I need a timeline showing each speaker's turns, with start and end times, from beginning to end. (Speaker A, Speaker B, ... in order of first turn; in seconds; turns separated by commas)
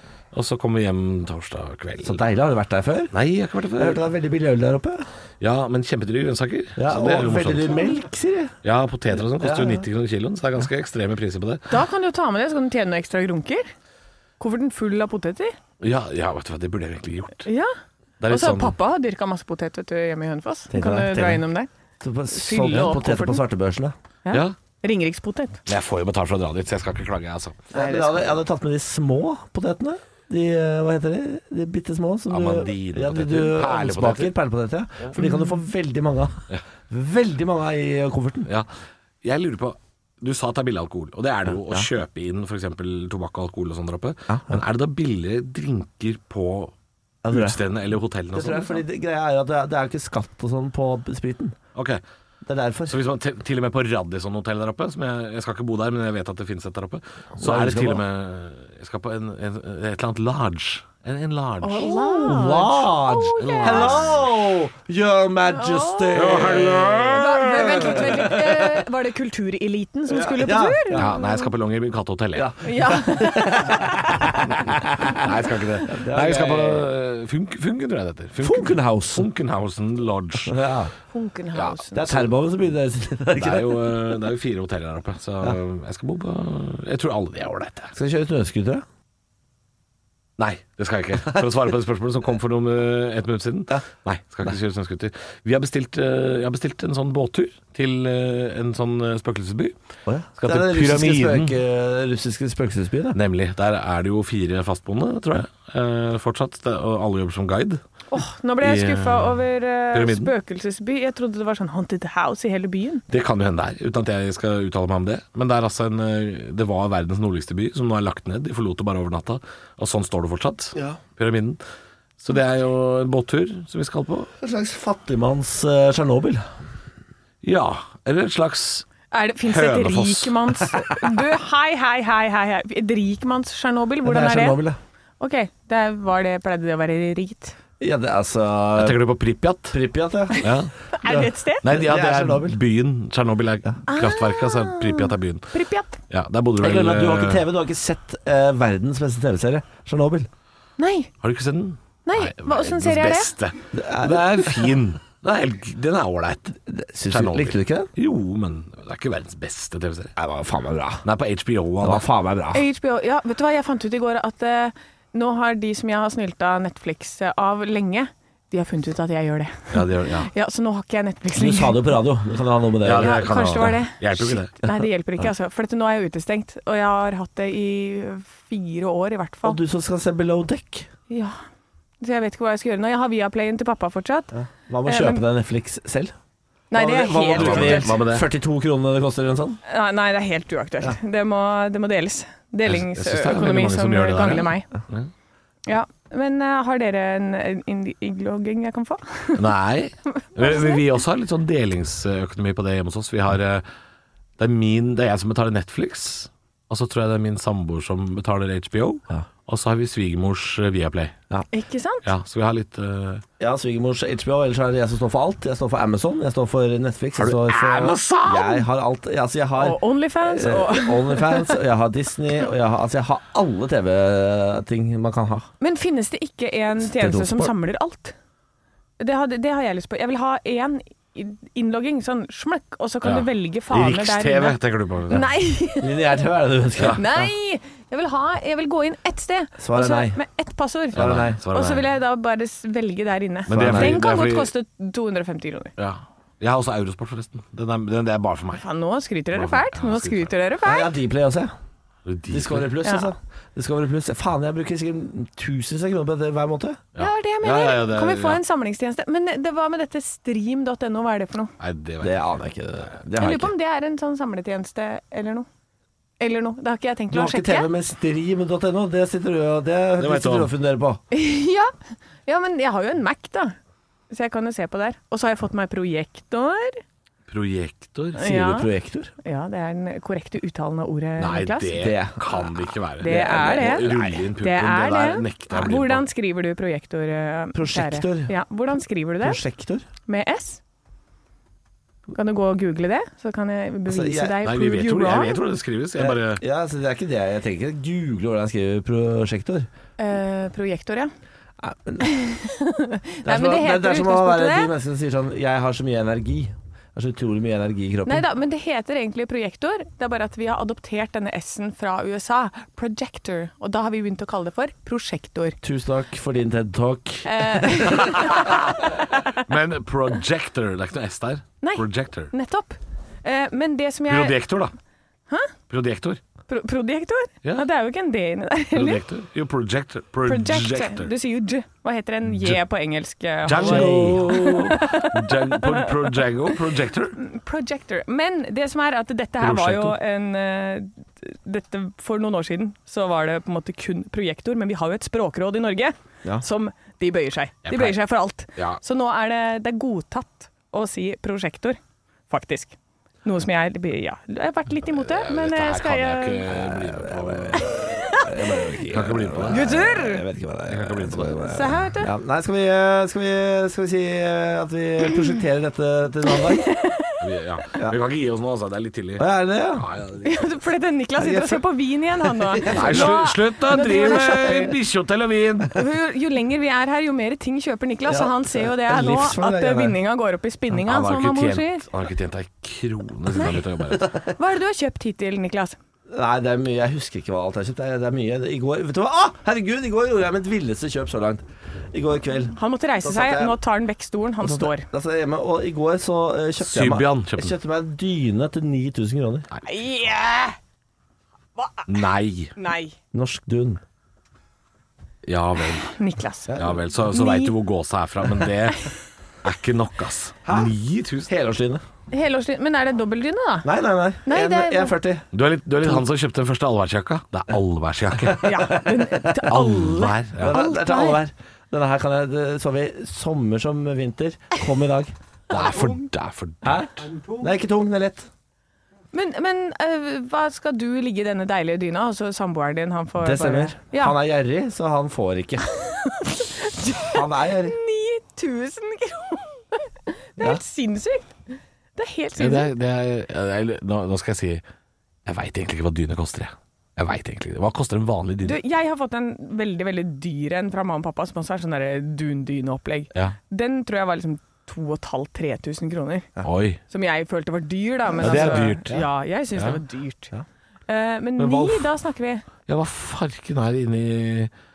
Speaker A: 0.3-2.2, Speaker B: 2.0-3.1, Speaker A: 3.1-4.0, Speaker B: 3.8-5.1, Speaker A: 5.4-7.9, Speaker B: 6.8-8.6, Speaker A: 8.6-11.8, Speaker B: 9.3-9.8, Speaker C: 11.7-13.7, Speaker C: 14.4-15.6, Speaker A: 15.8-17.5, Speaker C: 17.5-17.7, Speaker A: 18.2-18.8, Speaker C: 18.3-21.7, Speaker B: 20.7-21.4, Speaker B: 22.0-23.9, Speaker C: 22.3-23.4, Speaker C: 24.2-25.6, Speaker A: 25.7-27.7, Speaker B: 27.7-38.5, Speaker C: 27.7-28.4, Speaker A: 32.3-34.3, Speaker C: 35.2-35.6, Speaker A: 38.5-38.7, Speaker A: 39.2-46.7, Speaker B: 44.3-44.6, Speaker B: 47.2-47.6, Speaker A: 47.3-48.8, Speaker B: 48.3-51.6, Speaker A: 51.8-52.0, Speaker B: 52.5-53.0, Speaker A: 52.9-62.3, Speaker B: 57.4-58.0, Speaker C: 61.6-64.1, Speaker B: 61.8-68.8, Speaker A: 63.4-64.4, Speaker C: 65.5-71.5, Speaker A: 66.1-68.0, Speaker B: 70.1-71.1, Speaker A: 70.9-72.5, Speaker B: 72.3-75.3, Speaker C: 72.6-74.4, Speaker A: 74.5-80.6, Speaker B: 75.8-76.9, Speaker B: 78.4-79.3, Speaker B: 80.5-80.9, Speaker C: 81.1-82.3, Speaker B: 81.9-84.1, Speaker A: 83.4-87.9, Speaker B: 88.0-88.8, Speaker A: 90.4-99.8, Speaker B: 100.1-103.2, Speaker A: 100.4-101.6, Speaker A: 103.1-107.8, Speaker C: 108.1-113.0, Speaker A: 108.6-109.4, Speaker A: 109.9-110.3, Speaker A: 113.1-121.6, Speaker A: 122.2-124.3, Speaker B: 124.4-126.5, Speaker A: 127.4-128.9, Speaker C: 129.1-134.6, Speaker A: 129.4-130.6, Speaker B: 134.0-134.8, Speaker C: 135.2-137.6, Speaker B: 137.8-139.0, Speaker A: 138.8-139.8, Speaker B: 139.7-140.5, Speaker A: 140.4-140.7, Speaker C: 140.4-141.7, Speaker B: 141.0-142.6, Speaker A: 141.6-145.6, Speaker C: 143.9-146.0, Speaker A: 146.1-147.4, Speaker B: 146.6-150.3, Speaker C: 150.8-151.1, Speaker A: 151.2-156.6, Speaker C: 152.1-153.3, Speaker B: 153.7-154.7, Speaker B: 156.7-157.9, Speaker A: 157.1-160.1, Speaker B: 160.2-161.1, Speaker A: 161.0-162.1, Speaker B: 161.8-162.6, Speaker C: 162.5-172.0, Speaker A: 169.7-170.3, Speaker B: 171.3-173.3, Speaker A: 172.8-174.5, Speaker C: 173.0-179.6, Speaker B: 179.4-180.9, Speaker C: 181.1-181.4, Speaker C: 182.0-184.3, Speaker B: 184.3-186.1, Speaker C: 184.9-185.2, Speaker C: 186.7-188.0, Speaker B: 186.7-189.6, Speaker A: 187.3-188.3, Speaker C: 189.7-194.7, Speaker A: 192.7-195.1, Speaker C: 195.7-199.5, Speaker A: 199.4-203.7, Speaker C: 200.2-200.8, Speaker A: 204.4-211.2, Speaker C: 211.5-212.1, Speaker A: 212.0-213.2, Speaker B: 213.4-225.5, Speaker A: 217.2-218.7, Speaker C: 219.6-221.6, Speaker C: 225.6-228.2, Speaker B: 226.8-227.5, Speaker C: 229.0-236.2, Speaker A: 233.0-235.3, Speaker B: 235.8-237.3, Speaker A: 236.8-237.0, Speaker C: 236.9-245.7, Speaker B: 239.6-240.2, Speaker B: 240.9-241.4, Speaker A: 240.9-241.9, Speaker A: 243.5-244.5, Speaker B: 243.5-244.0, Speaker A: 245.8-248.6, Speaker C: 248.6-250.9, Speaker A: 249.3-250.3, Speaker B: 250.6-251.5, Speaker A: 252.1-252.7, Speaker B: 252.3-256.8, Speaker C: 252.8-253.1, Speaker A: 256.9-258.4, Speaker C: 257.0-261.5, Speaker A: 261.6-262.4, Speaker B: 262.0-263.5, Speaker C: 263.2-265.5, Speaker C: 266.2-267.7, Speaker B: 267.1-271.0, Speaker A: 270.0-270.5, Speaker C: 271.1-271.8, Speaker C: 272.3-273.6, Speaker C: 274.1-276.8, Speaker A: 277.3-278.2, Speaker C: 278.2-278.7, Speaker B: 278.2-279.1, Speaker C: 279.2-281.8, Speaker A: 281.2-286.1, Speaker B: 281.8-284.1, Speaker C: 283.0-289.4, Speaker B: 287.6-288.3, Speaker B: 289.2-289.9, Speaker C: 290.1-290.6, Speaker C: 292.1-295.4, Speaker B: 293.9-294.4, Speaker A: 294.4-296.4, Speaker B: 296.0-299.7, Speaker C: 300.0-301.1, Speaker B: 301.6-302.1, Speaker C: 302.0-304.7, Speaker B: 303.2-308.2, Speaker C: 308.1-315.6, Speaker B: 315.6-318.6, Speaker C: 317.2-319.4, Speaker A: 318.4-318.6, Speaker A: 319.4-322.3, Speaker C: 321.6-324.4, Speaker A: 324.1-324.7, Speaker C: 325.3-325.5, Speaker A: 325.7-326.2, Speaker C: 326.5-329.0, Speaker A: 328.7-331.1, Speaker C: 330.2-336.2, Speaker A: 333.4-337.2, Speaker B: 333.5-334.6, Speaker C: 337.2-351.8, Speaker A: 339.4-340.0, Speaker A: 347.6-348.0, Speaker C: 352.3-356.5, Speaker A: 354.9-358.0, Speaker B: 356.5-366.7, Speaker C: 357.6-358.6, Speaker A: 358.9-359.7, Speaker C: 359.5-360.2, Speaker A: 360.7-361.5, Speaker C: 361.4-362.1, Speaker C: 366.3-367.2, Speaker A: 367.2-369.2, Speaker B: 369.2-369.9, Speaker A: 369.8-370.4, Speaker C: 370.2-374.8, Speaker B: 371.2-371.6, Speaker B: 372.2-373.2, Speaker A: 372.7-375.8, Speaker C: 375.7-381.9, Speaker B: 378.1-380.0, Speaker A: 380.7-384.1, Speaker C: 383.3-385.8, Speaker B: 386.1-393.6, Speaker C: 392.6-394.9, Speaker B: 394.4-399.5, Speaker A: 396.6-397.6, Speaker C: 399.6-400.6, Speaker C: 401.6-402.0, Speaker A: 401.9-402.5, Speaker C: 402.6-402.9, Speaker B: 403.1-403.8, Speaker A: 405.2-405.9, Speaker C: 405.7-406.6, Speaker B: 406.5-406.8, Speaker A: 406.5-408.9, Speaker C: 407.1-407.6, Speaker A: 409.4-411.3, Speaker B: 410.4-410.7, Speaker B: 411.3-411.8, Speaker C: 412.1-413.7, Speaker B: 413.6-415.3, Speaker C: 414.3-414.9, Speaker A: 415.3-418.7, Speaker C: 418.4-421.2, Speaker B: 418.4-419.3, Speaker A: 419.5-420.6, Speaker B: 420.4-425.1, Speaker A: 425.5-427.1, Speaker B: 426.6-428.3, Speaker C: 429.1-434.2, Speaker B: 433.2-435.7, Speaker C: 435.7-441.4, Speaker B: 436.9-437.8, Speaker C: 442.0-442.7, Speaker A: 442.4-444.6, Speaker A: 445.3-448.6, Speaker C: 448.4-456.3, Speaker A: 456.4-456.8, Speaker C: 456.9-460.3, Speaker B: 458.2-459.1, Speaker A: 458.2-459.0, Speaker A: 459.6-459.8, Speaker C: 460.9-462.5, Speaker A: 461.4-461.9, Speaker A: 462.7-464.5